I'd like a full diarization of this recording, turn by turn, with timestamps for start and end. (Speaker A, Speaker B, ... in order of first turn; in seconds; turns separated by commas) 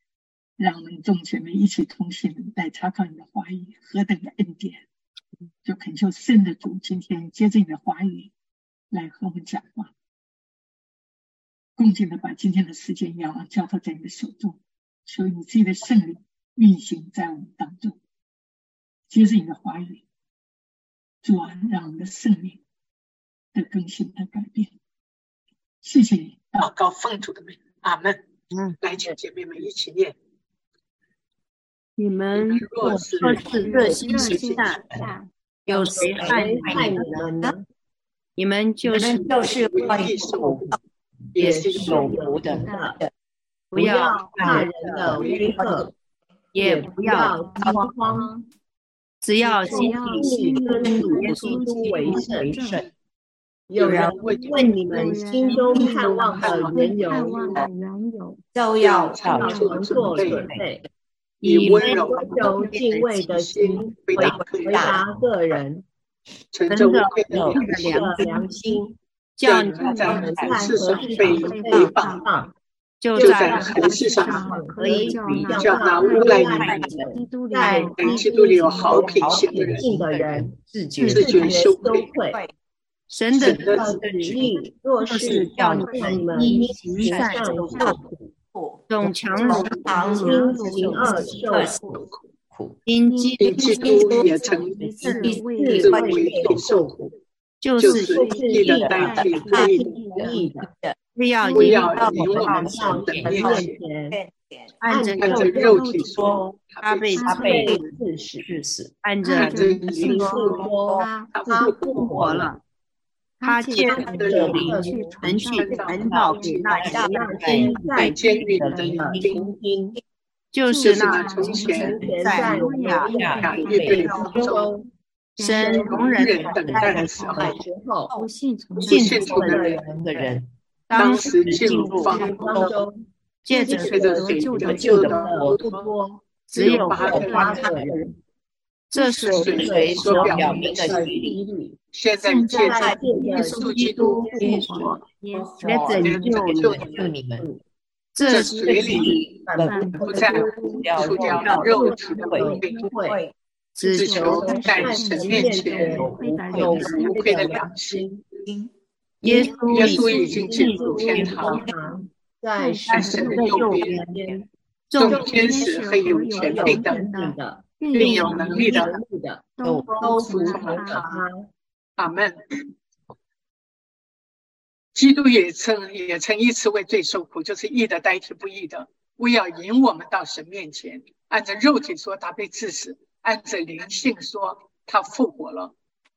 Speaker A: 0.6-4.8, Speaker A: 5.6-8.3, Speaker A: 8.9-9.9, Speaker A: 11.8-18.0, Speaker A: 19.1-20.0, Speaker A: 21.2-22.6, Speaker A: 23.5-24.7, Speaker A: 25.8-28.2, Speaker A: 28.8-30.1, Speaker B: 32.0-35.0, Speaker A: 32.3-33.6, Speaker C: 33.2-35.0, Speaker D: 33.4-35.3, Speaker B: 35.7-37.5, Speaker C: 35.7-37.1, Speaker E: 35.9-37.6, Speaker B: 38.4-40.4, Speaker C: 38.9-39.3, Speaker A: 39.2-40.8, Speaker C: 40.3-40.7, Speaker A: 41.3-42.1, Speaker E: 41.4-43.0, Speaker C: 41.4-42.7, Speaker D: 41.8-43.0, Speaker B: 43.7-45.7, Speaker E: 43.7-45.9, Speaker C: 43.8-45.3, Speaker A: 44.6-45.6, Speaker B: 46.5-47.9, Speaker E: 46.6-48.4, Speaker C: 47.0-47.7, Speaker D: 47.1-47.5, Speaker B: 49.2-52.2, Speaker C: 49.4-52.9, Speaker D: 49.6-52.9, Speaker E: 49.6-52.6, Speaker E: 53.7-57.6, Speaker A: 53.8-54.6, Speaker D: 53.9-58.4, Speaker B: 54.5-55.1, Speaker B: 55.7-56.1, Speaker A: 56.3-57.5, Speaker B: 58.5-59.2, Speaker A: 58.8-60.5, Speaker C: 59.1-60.7, Speaker E: 59.3-60.8, Speaker D: 59.4-59.9, Speaker B: 61.4-63.3, Speaker A: 61.4-62.4, Speaker E: 61.6-65.8, Speaker D: 62.2-62.8, Speaker C: 62.5-63.0, Speaker A: 63.3-65.0, Speaker C: 64.1-64.4, Speaker B: 64.2-65.0, Speaker A: 66.5-68.1, Speaker B: 66.7-68.5, Speaker C: 66.7-68.8, Speaker E: 67.5-68.9, Speaker B: 69.4-69.9, Speaker A: 69.4-72.2, Speaker C: 69.8-71.6, Speaker D: 69.8-72.4, Speaker E: 70.0-72.5, Speaker B: 71.1-71.9, Speaker B: 73.0-73.9, Speaker A: 73.2-74.5, Speaker D: 73.2-79.2, Speaker C: 73.2-73.7, Speaker E: 73.2-82.4, Speaker B: 74.8-75.6, Speaker C: 75.2-75.5, Speaker A: 75.5-76.8, Speaker C: 76.2-77.2, Speaker B: 76.2-76.7, Speaker A: 78.0-79.8, Speaker C: 78.7-81.5, Speaker A: 81.0-82.1, Speaker B: 81.2-82.5, Speaker B: 83.1-83.8, Speaker A: 83.3-84.0, Speaker E: 83.4-88.3, Speaker C: 83.8-88.0, Speaker B: 85.0-88.0, Speaker D: 85.9-88.0, Speaker B: 88.9-91.8, Speaker C: 88.9-92.0, Speaker D: 89.2-92.1, Speaker E: 89.7-91.8, Speaker B: 92.8-94.3, Speaker D: 93.1-96.4, Speaker A: 93.4-97.1, Speaker E: 93.7-94.2, Speaker C: 94.8-95.7, Speaker E: 95.0-97.1, Speaker B: 95.1-96.6, Speaker B: 97.6-98.0, Speaker A: 97.8-100.0, Speaker E: 97.8-100.7, Speaker D: 97.8-100.4, Speaker C: 98.0-99.5, Speaker B: 100.3-102.3, Speaker A: 101.5-103.8, Speaker D: 101.5-102.2, Speaker C: 101.6-103.6, Speaker E: 101.9-104.2, Speaker B: 103.4-105.5, Speaker C: 104.8-107.9, Speaker E: 104.8-105.9, Speaker A: 105.2-107.2, Speaker D: 105.3-106.4, Speaker B: 106.8-107.4, Speaker D: 107.1-107.8, Speaker E: 107.2-108.5, Speaker C: 108.4-109.7, Speaker B: 109.0-109.3, Speaker D: 109.2-111.3, Speaker A: 109.3-110.7, Speaker E: 109.9-112.5, Speaker C: 110.6-111.0, Speaker A: 111.3-112.4, Speaker B: 111.9-112.6, Speaker D: 113.4-119.1, Speaker B: 113.4-114.1, Speaker C: 113.7-119.4, Speaker E: 113.8-115.2, Speaker A: 114.1-114.8, Speaker B: 115.2-118.2, Speaker A: 115.5-116.9, Speaker E: 116.8-120.0, Speaker A: 118.0-119.5, Speaker B: 120.5-124.3, Speaker D: 120.6-124.7, Speaker A: 120.8-122.0, Speaker C: 120.8-121.5, Speaker E: 121.4-124.9, Speaker C: 123.0-124.6, Speaker A: 123.3-124.7, Speaker D: 125.3-127.5, Speaker E: 125.4-126.2, Speaker B: 125.5-127.6, Speaker A: 125.9-127.5, Speaker C: 126.4-127.6, Speaker E: 127.2-128.1, Speaker D: 128.1-129.8, Speaker C: 128.8-132.8, Speaker A: 128.9-129.8, Speaker E: 129.0-130.3, Speaker D: 130.9-132.7, Speaker A: 130.9-132.5, Speaker E: 132.1-133.0, Speaker D: 133.4-135.3, Speaker C: 133.5-135.6, Speaker E: 133.7-138.0, Speaker A: 133.7-135.8, Speaker D: 136.5-137.5, Speaker C: 136.5-138.1, Speaker A: 136.6-137.7, Speaker B: 137.5-137.8, Speaker D: 138.9-140.6, Speaker C: 138.9-141.4, Speaker B: 139.2-140.2, Speaker A: 139.3-141.0, Speaker E: 139.5-141.8, Speaker A: 141.9-144.3, Speaker D: 142.2-146.1, Speaker E: 142.5-144.9, Speaker C: 144.4-144.9, Speaker C: 145.6-147.5, Speaker B: 145.6-146.4, Speaker A: 146.0-147.1, Speaker E: 146.7-147.6, Speaker B: 148.2-148.5, Speaker D: 148.2-151.9, Speaker A: 148.2-149.2, Speaker C: 148.3-152.6, Speaker E: 148.8-153.2, Speaker A: 150.0-152.9, Speaker B: 153.0-154.1, Speaker A: 153.8-156.1, Speaker E: 153.9-158.2, Speaker D: 153.9-157.5, Speaker C: 154.2-157.1, Speaker A: 156.8-158.1, Speaker B: 159.2-159.7, Speaker C: 159.2-161.7, Speaker E: 159.3-164.5, Speaker D: 159.6-160.4, Speaker A: 159.7-161.7, Speaker D: 162.6-163.9, Speaker A: 162.9-163.9, Speaker C: 163.1-164.3, Speaker C: 164.9-165.3, Speaker A: 165.0-167.0, Speaker D: 165.0-168.9, Speaker E: 165.1-169.4, Speaker C: 166.6-167.1, Speaker A: 167.9-168.9, Speaker C: 167.9-168.8, Speaker D: 169.5-171.1, Speaker C: 169.6-171.2, Speaker A: 170.0-171.1, Speaker E: 170.4-171.5, Speaker A: 172.0-172.4, Speaker A: 174.9-185.7